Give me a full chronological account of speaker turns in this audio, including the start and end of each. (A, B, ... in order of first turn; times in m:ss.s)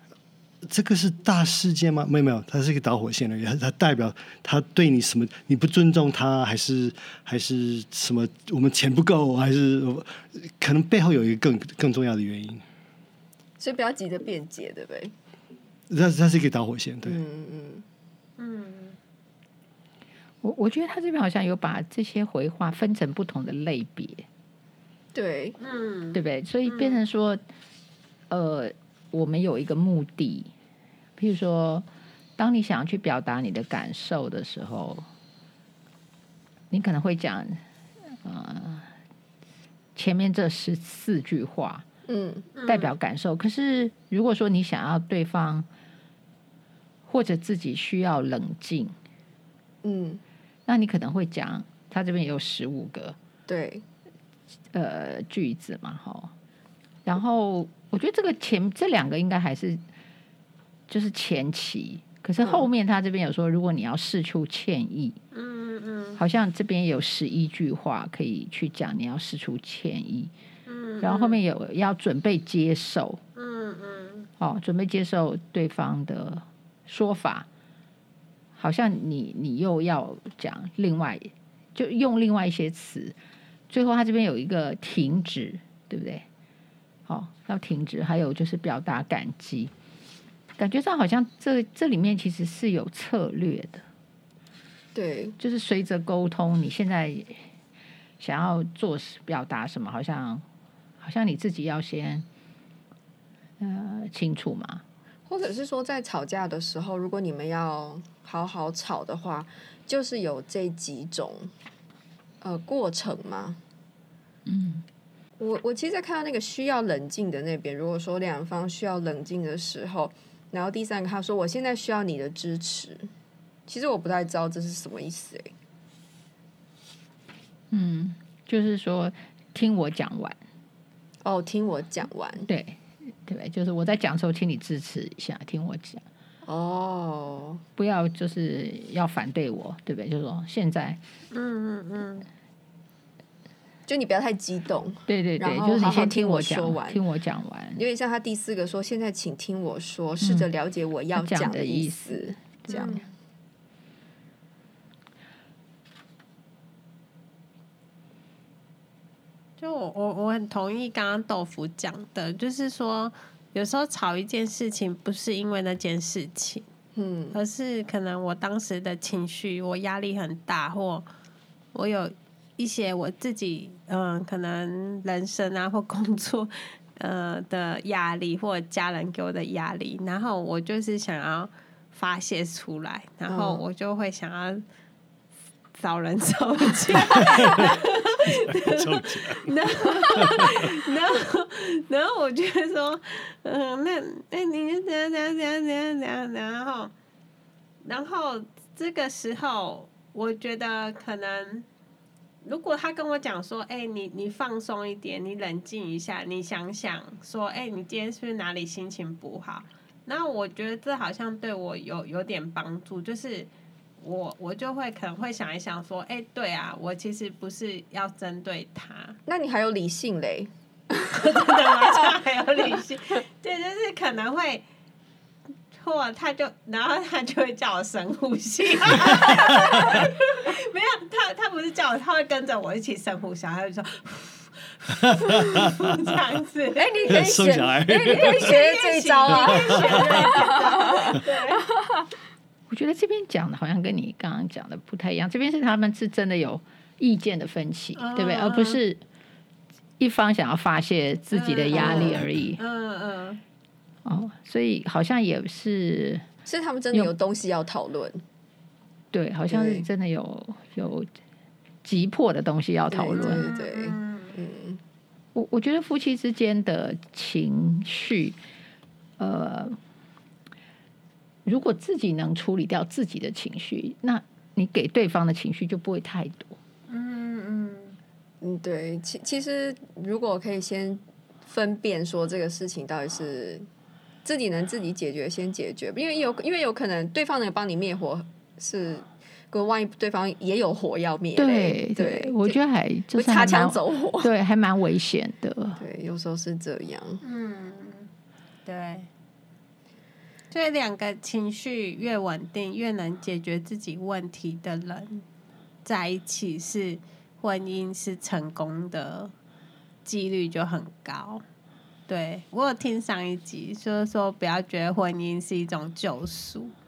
0:00.7-0:12.6 A
0:13.6-0:15.1 B
0:15.9-0:17.2 A
0:17.0-0:17.8 B
0:18.4-0:19.0 C
0:20.4-0:24.2 D
0:25.1-0:25.6 B
0:25.6-0:27.0 C
0:26.1-0:27.4 D
0:28.3-0:30.5 D
0:31.2-0:31.8 D
0:32.4-0:35.1 D
0:36.7-0:37.6 D
0:38.2-0:38.9 D
0:40.0-0:41.8 D
0:42.1-0:42.5 B
0:42.6-0:42.9 C
0:42.7-0:45.7 D
0:47.1-0:48.9 D
0:49.8-0:50.2 B
0:50.7-0:53.2 D
0:53.5-0:53.8 B
0:54.7-0:56.3 D
0:57.1-0:59.8 D
1:00.9-1:05.2 D
1:02.4-1:02.7 B
1:05.3-1:06.2 C
1:06.2-1:10.3 D
1:10.7-1:11.4 C
1:11.0-1:13.2 D
1:13.4-1:14.3 C
1:14.4-1:17.5 D
1:18.6-1:23.2 D
1:23.7-1:26.2 D
1:27.1-1:29.7 D
1:30.6-1:33.8 D
1:34.9-1:35.4 B
1:35.4-1:37.4 D
1:38.2-1:40.4 D
1:41.0-1:42.3 D
1:43.6-1:44.8 D
1:45.3-1:51.5 B
1:52.4-1:53.6 B
1:54.5-1:54.8 D
1:55.4-2:03.1 B
2:03.7-2:05.5 B
2:07.7-2:10.4 D
2:11.2-2:12.5 B
2:12.5-2:16.0 D
2:16.4-2:17.6 B
2:17.8-2:21.0 D
2:21.3-2:22.3 C
2:23.9-2:27.0 B
2:25.1-2:27.8 D
2:27.8-2:33.0 B
2:30.2-2:30.5 D
2:31.2-2:33.0 D
2:32.7-2:33.0 C
2:39.6-2:46.6 C
2:47.0-2:47.4 B
2:47.3-2:51.1 C
2:51.7-3:04.6 C
3:03.3-3:03.6 B
3:05.8-3:16.9 C
3:07.0-3:10.8 A
3:17.8-3:21.7 C
3:22.4-3:33.5 C
3:34.0-3:39.2 C
3:39.3-3:41.9 B
3:41.1-3:44.6 C
3:45.8-3:57.2 C
3:54.9-3:56.2 A
3:56.8-4:02.1 B
3:57.1-3:58.6 A
3:57.9-4:01.6 C
3:59.6-4:00.4 A
4:02.7-4:09.0 D
4:08.0-4:08.8 C
4:10.0-4:12.6 D
4:11.3-4:13.4 C
4:11.7-4:12.2 B
4:14.0-4:16.2 D
4:16.5-4:18.2 B
4:19.1-4:21.1 D
4:19.5-4:19.9 B
4:21.8-4:23.5 D
4:22.9-4:24.8 B
4:23.2-4:24.3 C
4:25.4-4:28.4 D
4:29.2-4:29.8 D
4:31.4-4:36.6 D
4:36.9-4:38.0 C
4:38.4-4:43.7 B
4:44.2-4:52.6 B
4:51.4-4:55.8 D
4:53.1-4:54.3 B
4:55.8-4:57.2 B
4:57.2-4:58.1 C
4:58.7-4:59.1 C
5:00.5-5:05.2 C
5:05.8-5:09.3 C
5:10.0-5:11.4 C
5:12.1-5:16.7 C